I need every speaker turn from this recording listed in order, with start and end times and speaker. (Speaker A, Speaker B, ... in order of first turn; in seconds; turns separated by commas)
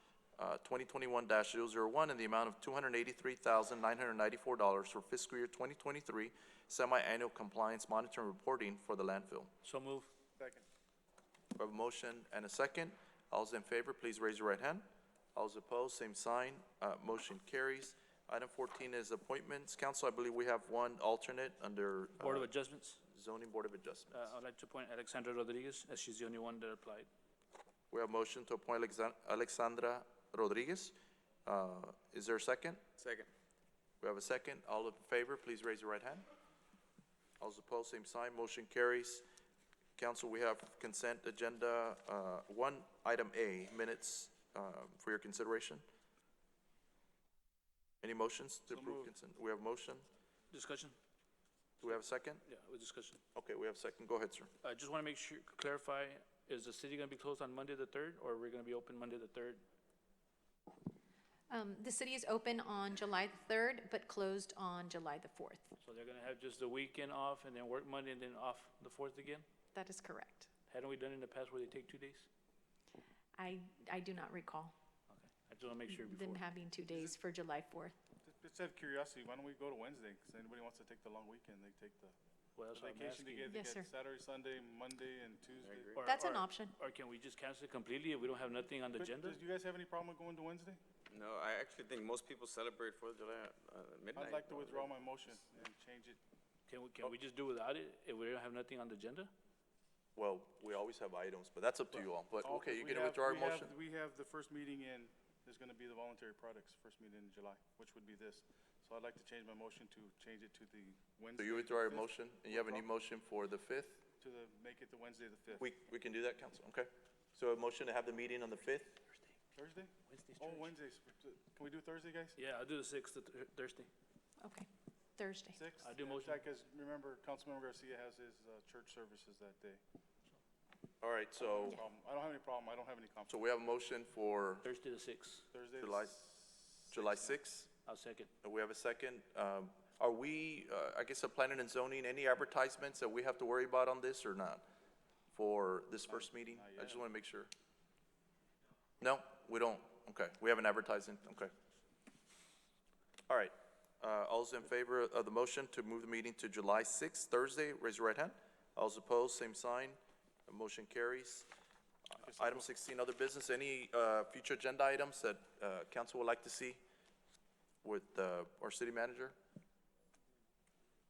Speaker A: 0.4-9.5, Speaker B: 9.6-10.1, Speaker C: 10.4-10.7, Speaker A: 11.6-22.5, Speaker B: 22.2-23.0, Speaker A: 23.1-24.3, Speaker B: 24.1-27.1, Speaker A: 27.9-32.8, Speaker D: 33.0-33.3, Speaker A: 34.0-36.2, Speaker A: 37.4-39.2, Speaker A: 40.0-45.8, Speaker A: 48.0-50.0, Speaker C: 48.7-49.1, Speaker B: 50.5-51.0, Speaker A: 51.8-52.4, Speaker B: 52.5-53.2, Speaker A: 53.3-54.5, Speaker B: 54.6-59.6, Speaker E: 61.5-65.7, Speaker B: 65.8-69.5, Speaker E: 69.7-70.5, Speaker B: 70.7-72.3, Speaker E: 73.3-74.7, Speaker B: 75.1-76.4, Speaker E: 75.9-78.0, Speaker C: 76.9-77.2, Speaker C: 78.2-82.2, Speaker B: 82.5-83.5, Speaker C: 82.7-86.4, Speaker E: 83.5-83.9, Speaker D: 85.6-86.1, Speaker B: 86.0-89.4, Speaker E: 86.0-86.7, Speaker C: 89.0-90.8, Speaker D: 91.1-95.0, Speaker C: 94.1-96.2, Speaker B: 96.7-99.3, Speaker A: 100.2-103.7, Speaker C: 102.4-112.9, Speaker A: 111.4-114.0, Speaker C: 114.2-115.7, Speaker A: 115.6-119.0, Speaker C: 119.5-122.4, Speaker B: 120.1-120.7, Speaker B: 122.4-123.9, Speaker E: 124.4-125.6, Speaker C: 125.5-129.8, Speaker B: 125.8-126.4, Speaker A: 131.0-131.8, Speaker C: 131.4-133.4, Speaker A: 133.3-134.7, Speaker B: 134.6-135.4, Speaker C: 135.5-137.4, Speaker A: 135.8-136.2, Speaker A: 136.9-137.7, Speaker B: 137.8-138.3, Speaker A: 138.4-144.6, Speaker A: 145.3-147.5, Speaker C: 146.1-147.0, Speaker A: 149.0-151.5, Speaker A: 153.3-161.5, Speaker A: 162.1-166.8, Speaker C: 162.1-162.7, Speaker A: 167.8-169.3